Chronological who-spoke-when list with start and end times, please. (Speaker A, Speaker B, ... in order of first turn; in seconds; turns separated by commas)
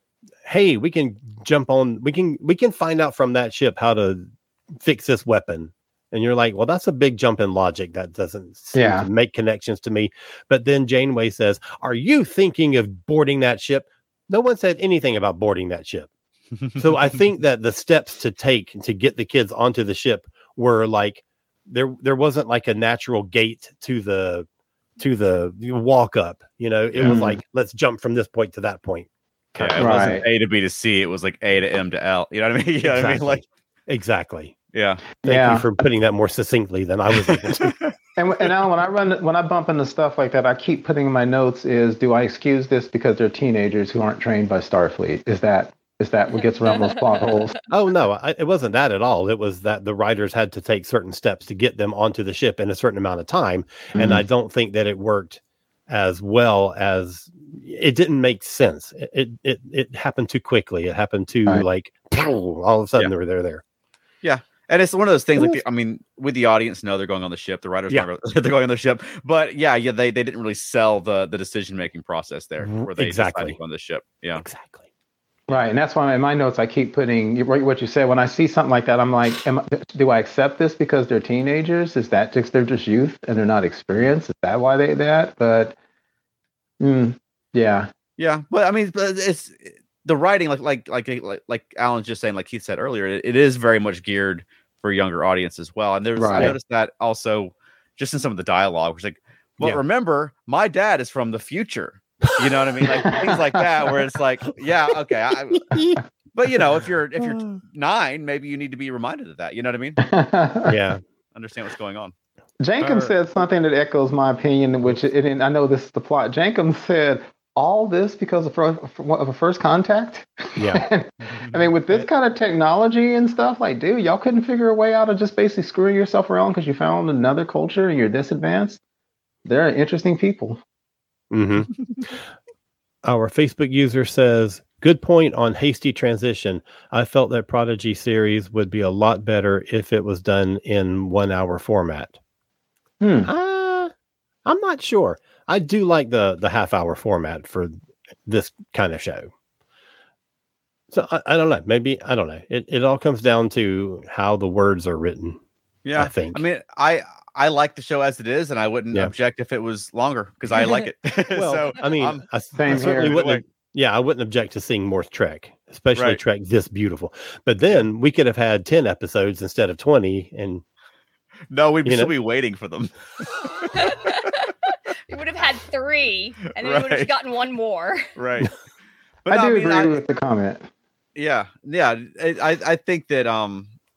Speaker A: 0.4-16.1, Speaker B: 8.7-9.1, Speaker A: 16.8-24.5, Speaker A: 25.0-29.1, Speaker C: 26.9-27.2, Speaker B: 27.1-27.4, Speaker B: 29.6-30.2, Speaker C: 29.6-33.4, Speaker A: 29.7-30.2, Speaker A: 32.8-34.5, Speaker C: 34.7-35.1, Speaker B: 35.2-35.7, Speaker A: 35.2-37.8, Speaker C: 37.2-37.9, Speaker B: 38.2-47.5, Speaker A: 47.7-63.6, Speaker B: 53.9-54.2, Speaker C: 64.2-74.4, Speaker A: 72.6-73.6, Speaker A: 74.3-74.8, Speaker B: 75.5-85.7, Speaker B: 86.8-87.9, Speaker C: 88.2-105.7, Speaker B: 96.2-96.5, Speaker A: 104.9-106.0, Speaker C: 106.3-110.0, Speaker A: 107.2-107.6, Speaker B: 110.0-110.7, Speaker A: 110.7-111.0, Speaker C: 111.3-112.1, Speaker B: 112.6-128.8, Speaker A: 112.8-113.1, Speaker A: 120.6-120.8, Speaker B: 129.4-130.6, Speaker A: 131.3-131.7, Speaker A: 133.0-142.1, Speaker B: 143.0-143.3, Speaker A: 143.2-143.9, Speaker A: 144.4-147.7, Speaker A: 148.2-149.3, Speaker A: 150.9-155.4, Speaker C: 155.8-163.4, Speaker A: 155.9-156.4, Speaker A: 161.3-170.6, Speaker B: 162.6-163.2, Speaker C: 171.5-173.9, Speaker A: 171.8-172.1, Speaker D: 173.7-174.5, Speaker D: 175.1-178.0, Speaker C: 176.5-177.1, Speaker C: 178.2-178.5, Speaker B: 179.2-180.7, Speaker C: 179.3-180.0, Speaker C: 181.2-183.7